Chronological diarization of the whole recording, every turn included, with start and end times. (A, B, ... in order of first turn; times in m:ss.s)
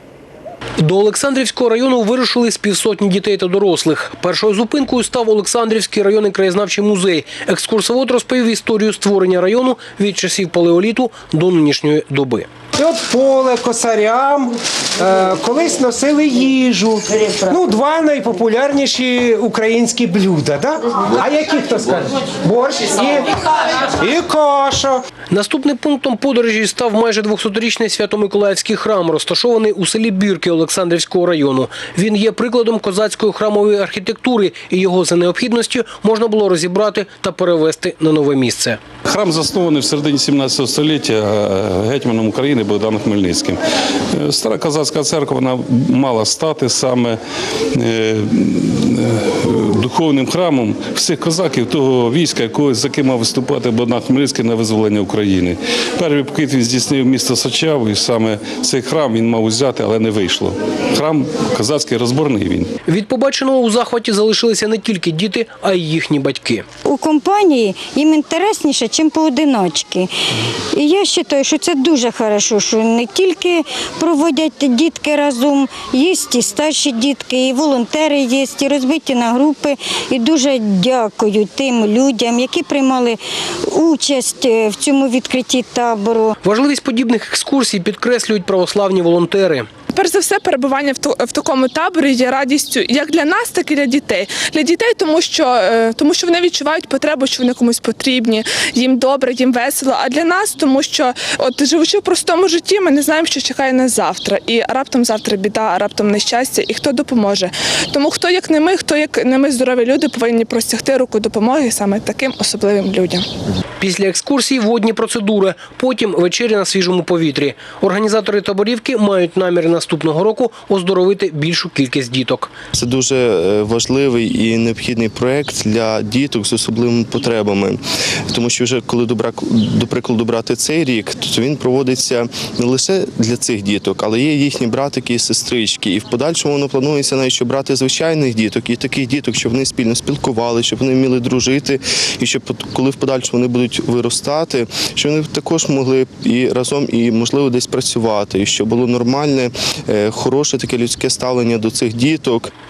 0:00.8-0:12.5 A
0:12.7-0:25.0 B
0:25.3-0:38.8 A
0:39.0-0:43.6 C
0:44.1-0:47.2 C
0:47.7-1:02.7 C
1:02.9-1:06.6 A
1:06.8-1:10.1 D
1:10.7-1:26.4 D
1:26.4-1:29.7 A
1:29.9-1:53.2 E
1:53.8-2:02.5 A
2:02.7-2:32.5 F